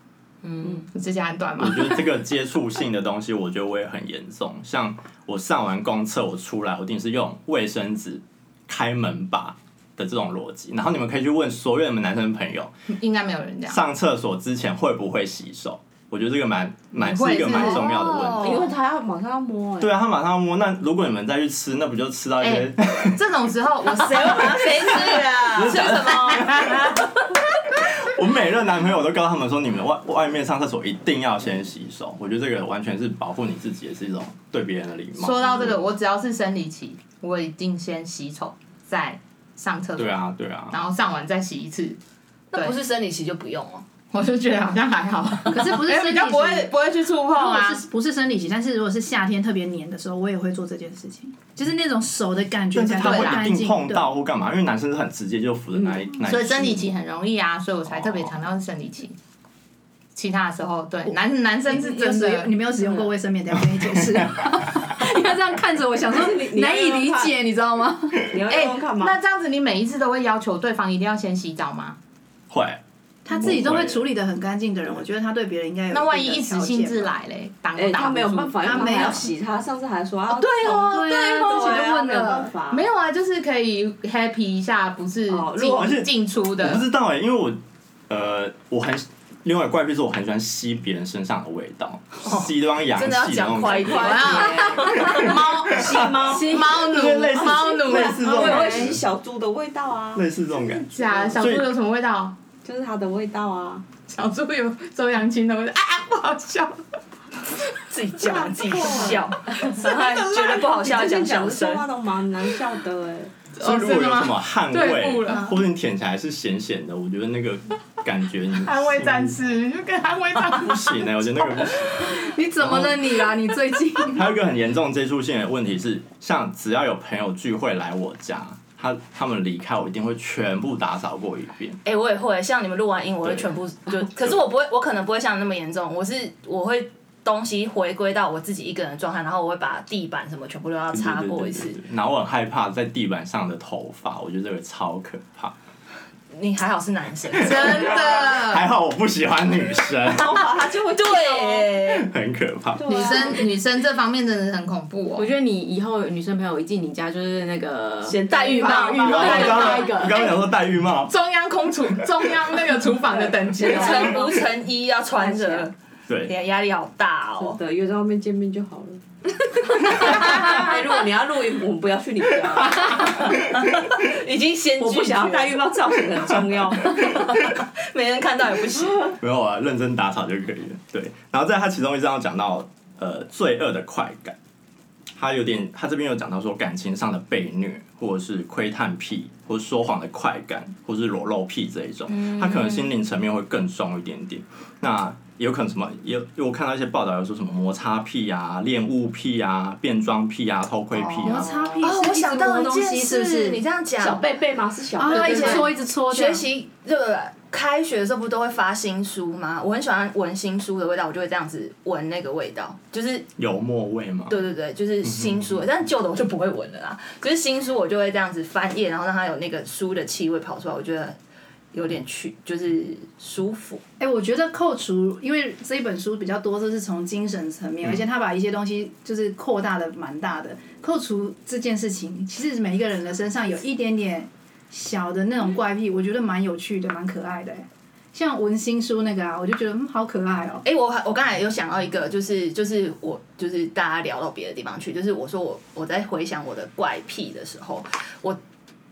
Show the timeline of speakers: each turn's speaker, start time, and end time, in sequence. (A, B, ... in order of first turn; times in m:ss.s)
0:00.4-0:02.1 A
0:01.6-0:12.7 B
0:12.9-0:13.8 A
0:13.7-0:18.7 B
0:17.0-0:18.7 A
0:17.6-0:20.0 C
0:19.8-0:23.2 B
0:22.4-0:26.3 A
0:23.9-0:27.0 C
0:24.5-0:26.8 D
0:24.9-0:27.1 B
0:27.7-0:35.8 B
0:35.2-0:42.0 A
0:40.0-0:40.8 B
0:42.5-0:43.8 D
0:44.1-0:47.8 A
0:45.5-0:46.7 E
0:47.3-0:54.2 E
0:52.7-0:56.9 B
0:52.9-0:53.5 A
0:56.2-0:59.2 A
0:58.0-0:58.3 B
1:00.2-1:02.5 A
1:01.7-1:08.4 E
1:03.8-1:04.2 B
1:06.1-1:07.4 C
1:08.3-1:09.2 C
1:08.5-1:12.0 A
1:12.5-1:14.1 B
1:13.2-1:17.2 E
1:15.9-1:19.2 A
1:17.8-1:22.8 C
1:18.6-1:19.3 E
1:20.4-1:22.1 A
1:20.6-1:21.5 D
1:20.8-1:22.5 E
1:22.7-1:26.8 A
1:25.3-1:26.0 C
1:25.7-1:39.0 B
1:32.2-1:35.4 D
1:33.8-1:40.3 C
1:34.0-1:38.8 A
1:40.2-1:41.7 B
1:40.8-1:42.4 A
1:41.1-1:41.3 C
1:42.6-1:43.8 C
1:44.1-1:46.8 A
1:47.9-1:51.9 D
1:48.2-1:53.5 C
1:53.6-1:55.5 A
1:53.6-1:59.4 B
1:55.3-1:55.6 E
1:58.6-2:01.0 A
2:00.4-2:03.1 B
2:02.0-2:04.4 E
2:04.1-2:11.8 B
2:11.8-2:21.8 D
2:13.2-2:13.5 B
2:20.9-2:25.5 B
2:26.3-2:28.3 D
2:27.4-2:28.6 A
2:27.4-2:30.4 B
2:30.0-2:31.7 C
2:30.7-2:32.1 D
2:31.8-2:33.1 B
2:32.8-2:33.5 C
2:32.9-2:35.3 A
2:35.2-2:40.3 F
2:38.0-2:39.7 C
2:38.4-2:39.8 A
2:38.5-2:40.0 D
2:39.0-2:41.1 B
2:41.1-2:44.3 A
2:43.2-2:44.4 C
2:43.6-2:45.7 D
2:45.2-2:45.7 C
2:46.2-2:47.6 D
2:47.4-2:53.3 C
2:49.8-2:50.8 D
2:52.8-2:55.7 D
2:54.8-2:57.2 C
2:56.8-2:59.2 D
2:59.2-3:04.4 B
3:05.2-3:21.5 B
3:12.4-3:12.9 D
3:21.1-3:23.6 E
3:21.5-3:21.8 C
3:21.8-3:24.3 D
3:24.0-3:25.7 C
3:25.0-3:26.5 E
3:25.0-3:33.3 D
3:33.4-3:34.4 B
3:34.3-3:41.2 D
3:35.0-3:35.6 B
3:41.7-3:43.8 D
3:44.0-4:00.6 E
4:00.6-4:08.4 D